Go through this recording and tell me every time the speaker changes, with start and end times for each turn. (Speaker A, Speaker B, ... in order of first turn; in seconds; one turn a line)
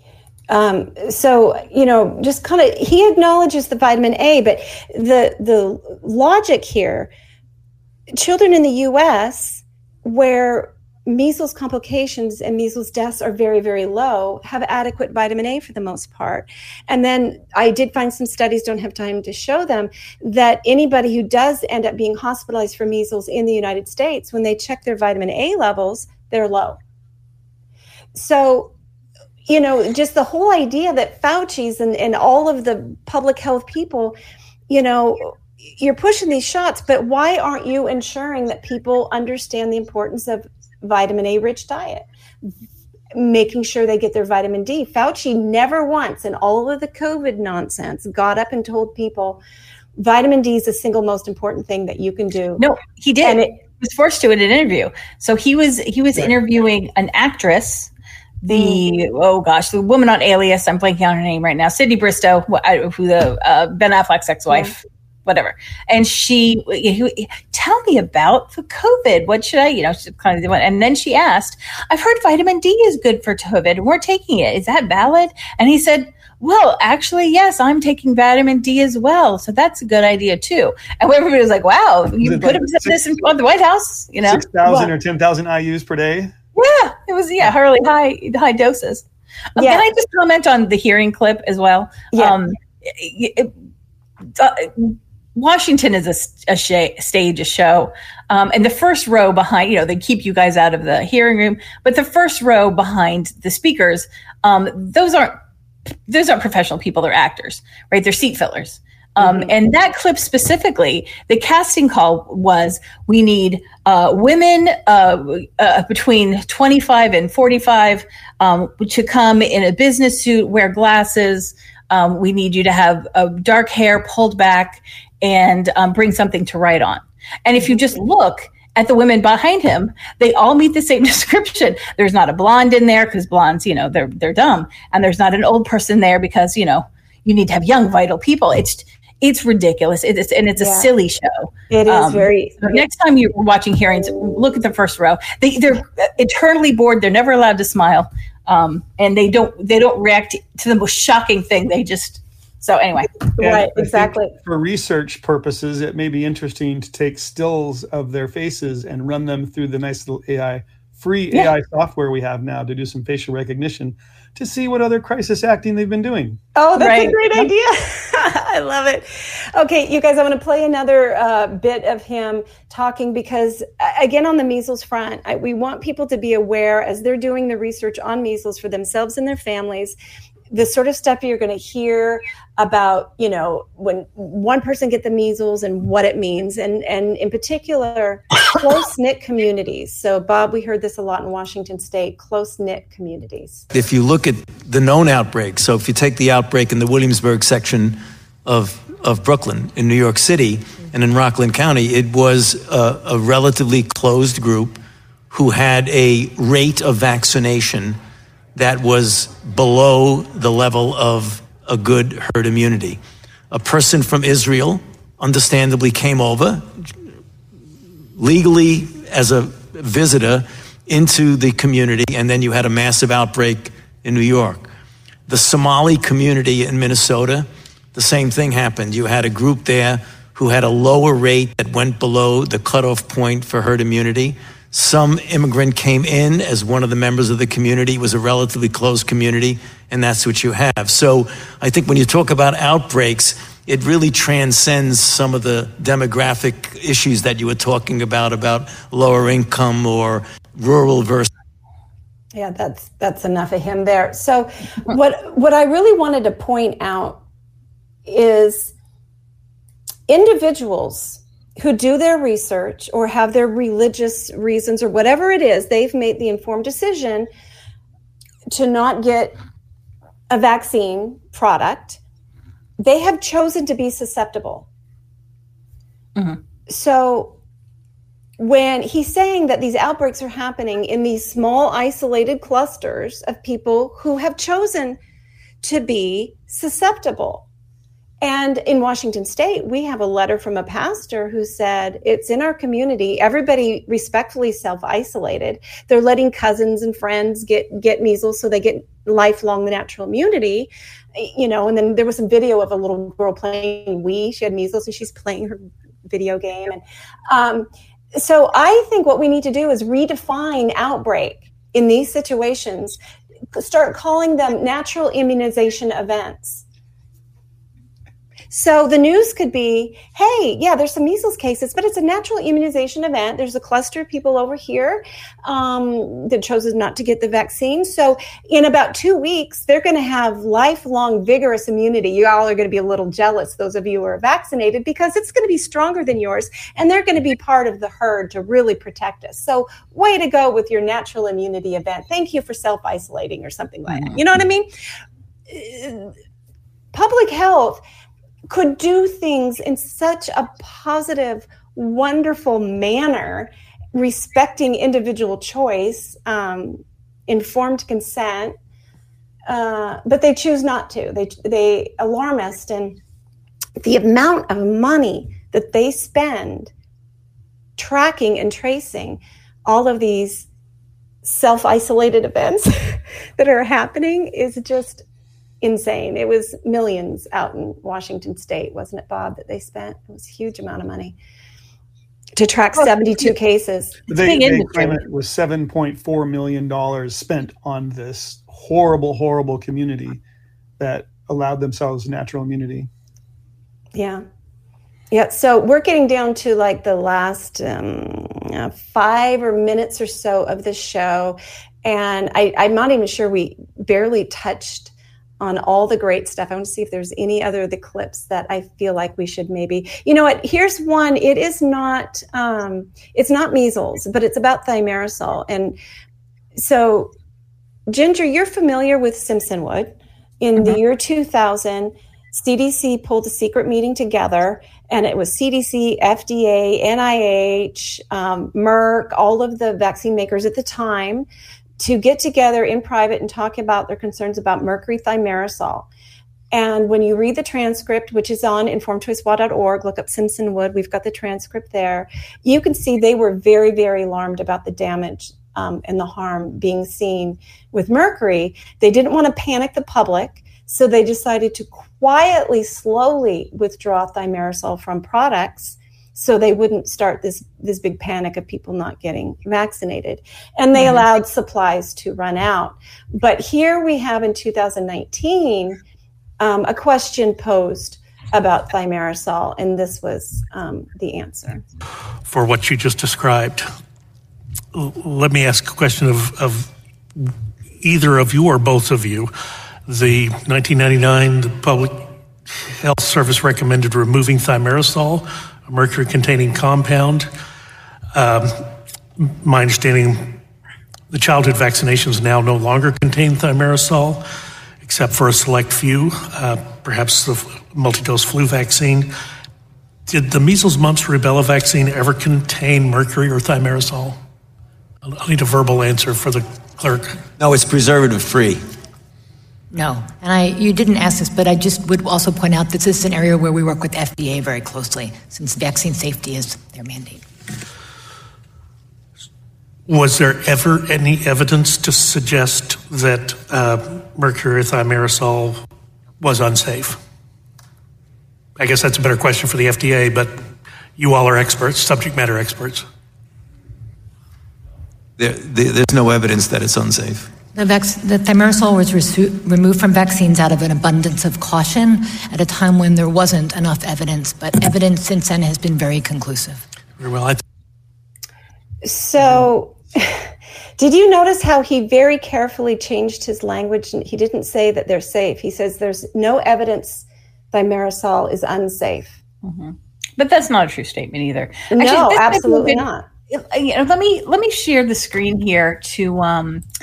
Speaker A: 0.5-7.1
Speaker A: 8.1-26.8
Speaker A: 28.1-28.7
Speaker A: 29.4-34.2
Speaker A: 34.7-42.5
Speaker A: 43.1-49.4
Speaker A: 50.0-52.6
Speaker B: 52.6-57.9
Speaker A: 53.2-53.5
Speaker B: 58.4-84.4
Speaker A: 58.5-58.8
Speaker C: 82.2-83.0
Speaker C: 84.2-86.3
Speaker A: 84.6-84.9
Speaker B: 86.5-93.5
Speaker A: 89.5-89.8
Speaker A: 92.1-92.4
Speaker B: 94.4-105.4
Speaker B: 106.1-153.1
Speaker A: 109.2-109.5
Speaker A: 140.6-140.9
Speaker A: 141.7-142.8
Speaker A: 153.4-154.3
Speaker C: 153.4-166.4
Speaker A: 166.5-179.9
Speaker B: 166.8-167.4
Speaker A: 180.5-193.6
Speaker D: 193.7-204.8
Speaker D: 205.3-208.0
Speaker D: 208.5-213.0
Speaker D: 213.5-216.9
Speaker D: 218.2-224.7
Speaker D: 225.3-251.3
Speaker A: 252.3-257.2
Speaker A: 258.1-258.7
Speaker A: 260.1-267.3
Speaker A: 268.5-269.4
Speaker A: 270.3-272.0
Speaker A: 272.8-274.7
Speaker A: 276.7-277.4
Speaker A: 278.4-285.0
Speaker A: 285.6-287.4
Speaker A: 288.2-313.0
Speaker A: 313.5-316.6
Speaker A: 318.5-344.7
Speaker B: 343.9-344.2
Speaker A: 345.5-346.1
Speaker A: 346.9-347.8
Speaker A: 348.5-358.6
Speaker A: 359.4-363.0
Speaker A: 363.8-366.7
Speaker A: 367.8-370.5
Speaker A: 371.2-375.0
Speaker A: 375.6-381.1
Speaker A: 382.4-384.0
Speaker B: 382.8-383.3
Speaker C: 384.1-390.2
Speaker B: 384.1-384.9
Speaker C: 390.8-392.9
Speaker A: 393.9-394.2
Speaker A: 395.1-415.8
Speaker A: 416.5-417.1
Speaker A: 417.9-431.3
Speaker A: 431.8-435.9
Speaker A: 436.5-465.8
Speaker B: 460.8-461.0
Speaker A: 466.4-471.6
Speaker E: 472.2-473.6
Speaker E: 474.7-479.3
Speaker E: 479.9-487.3
Speaker E: 488.1-490.4
Speaker E: 491.1-494.2
Speaker E: 494.8-499.1
Speaker E: 500.1-504.2
Speaker E: 505.0-507.2
Speaker D: 507.4-508.6
Speaker F: 509.7-517.2
Speaker E: 519.9-525.6
Speaker E: 526.2-527.0
Speaker E: 528.6-530.3
Speaker E: 531.0-532.8
Speaker D: 535.2-537.3
Speaker F: 537.5-546.6
Speaker E: 547.0-547.4
Speaker A: 548.8-559.2
Speaker B: 559.4-566.6
Speaker A: 561.7-563.1